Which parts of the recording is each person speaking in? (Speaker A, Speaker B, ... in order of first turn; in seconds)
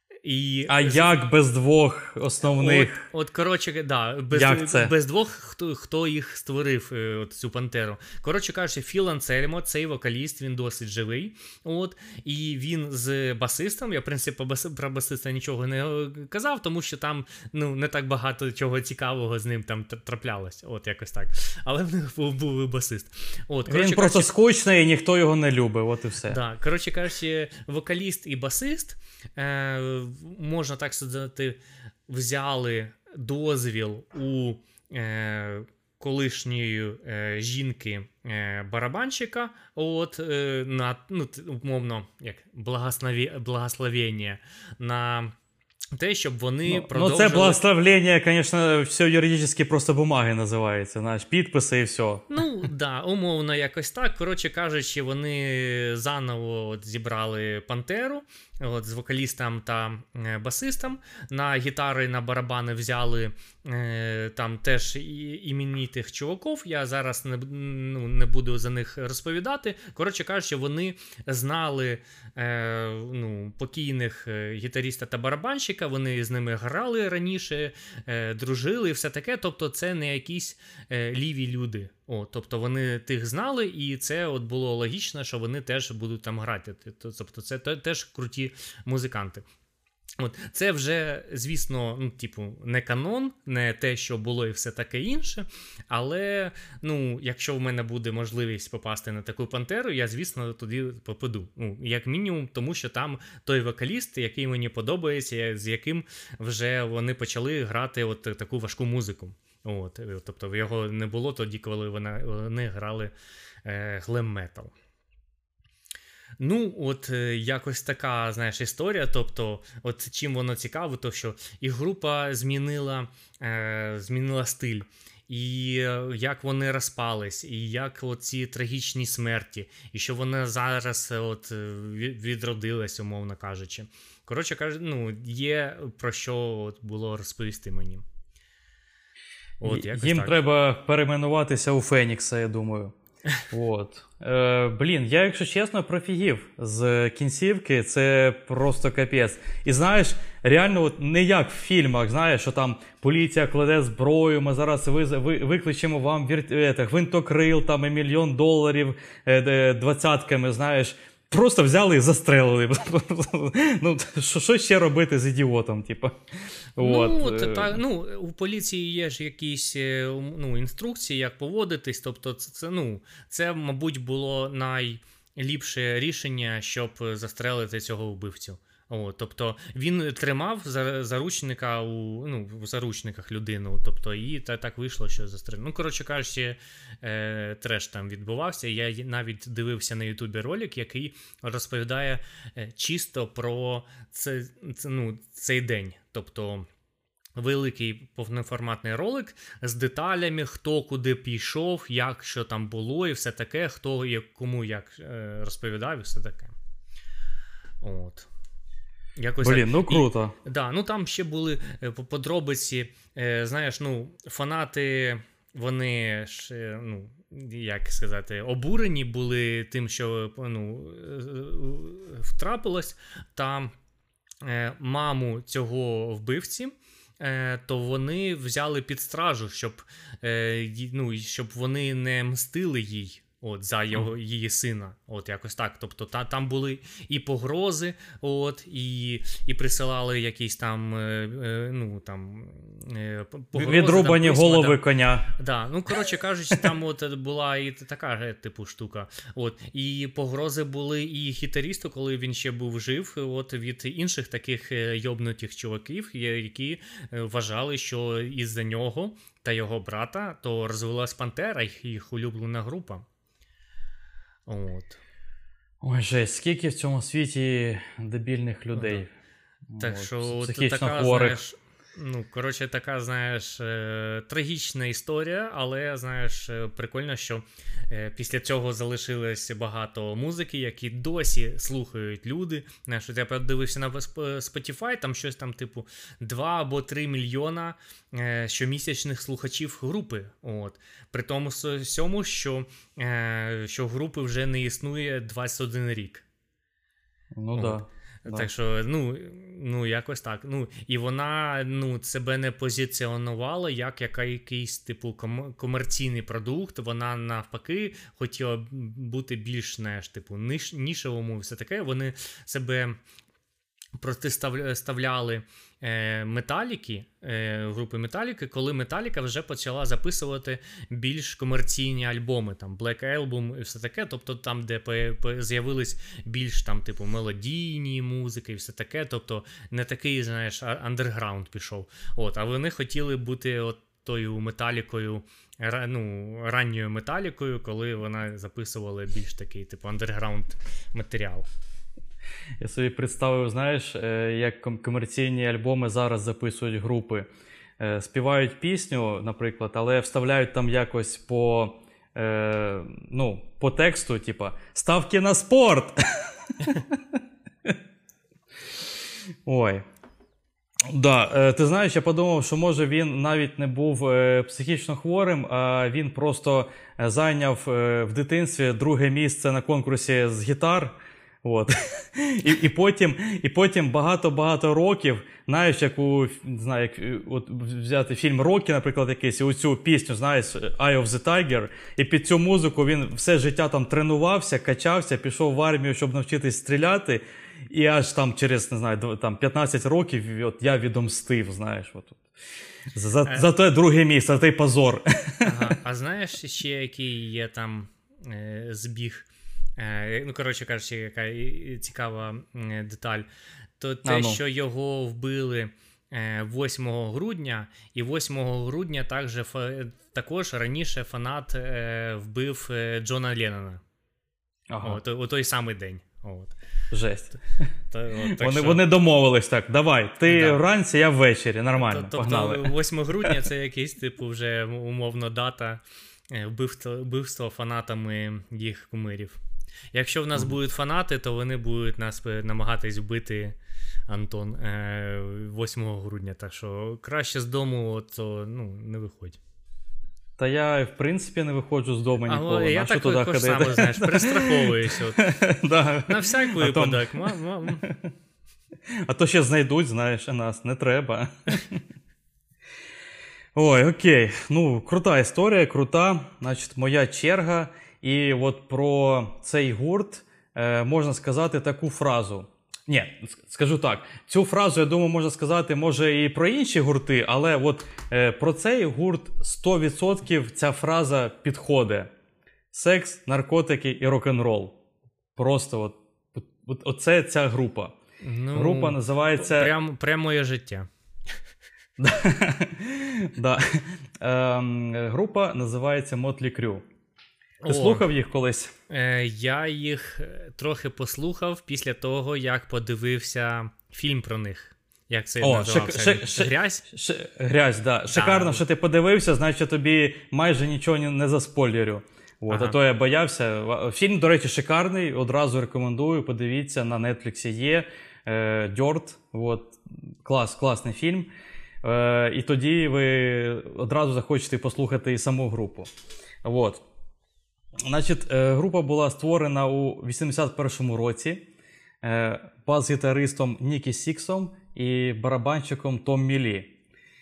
Speaker A: 0.2-1.2, 2.4-24.3, 26.3-45.3, 46.0-47.6, 52.3-89.5, 90.2-113.1, 113.7-114.7, 116.4-138.1, 139.6-140.4, 166.8-196.7, 197.4-206.6, 207.8-208.3, 209.2-223.7, 224.4-244.8, 245.4-263.1, 264.5-265.0, 268.8-269.0, 269.8-296.2, 297.6-313.0, 314.0-341.5, 395.4-403.3, 403.8-413.8, 414.8-416.6, 417.9-418.8, 420.3-420.6, 421.8-429.4, 429.9-433.6, 434.1-439.4, 442.3-445.3, 446.1-447.8, 478.2-480.9, 487.6-488.1, 488.9-496.9, 498.1-498.6, 502.5-502.8
Speaker B: 0.7-3.1, 4.3-4.9, 23.7-26.4, 46.7-52.3, 139.6-142.9, 143.5-166.2, 166.8-167.8, 209.4-210.3, 243.5-245.3, 265.8-269.1, 269.7-271.4, 297.4-298.5, 342.6-347.3, 347.8-357.0, 359.5-359.8, 360.9-392.2, 392.9-395.7, 404.0-404.4, 414.7-415.0, 416.9-417.7, 418.4-422.7, 440.4-448.1, 449.1-451.8, 453.6-472.1, 472.7-474.8, 475.4-477.9, 478.5-479.7, 482.0-486.8, 487.7-488.7, 495.4-511.3, 511.8-515.9, 516.4-516.8, 517.9-521.5, 522.0-526.8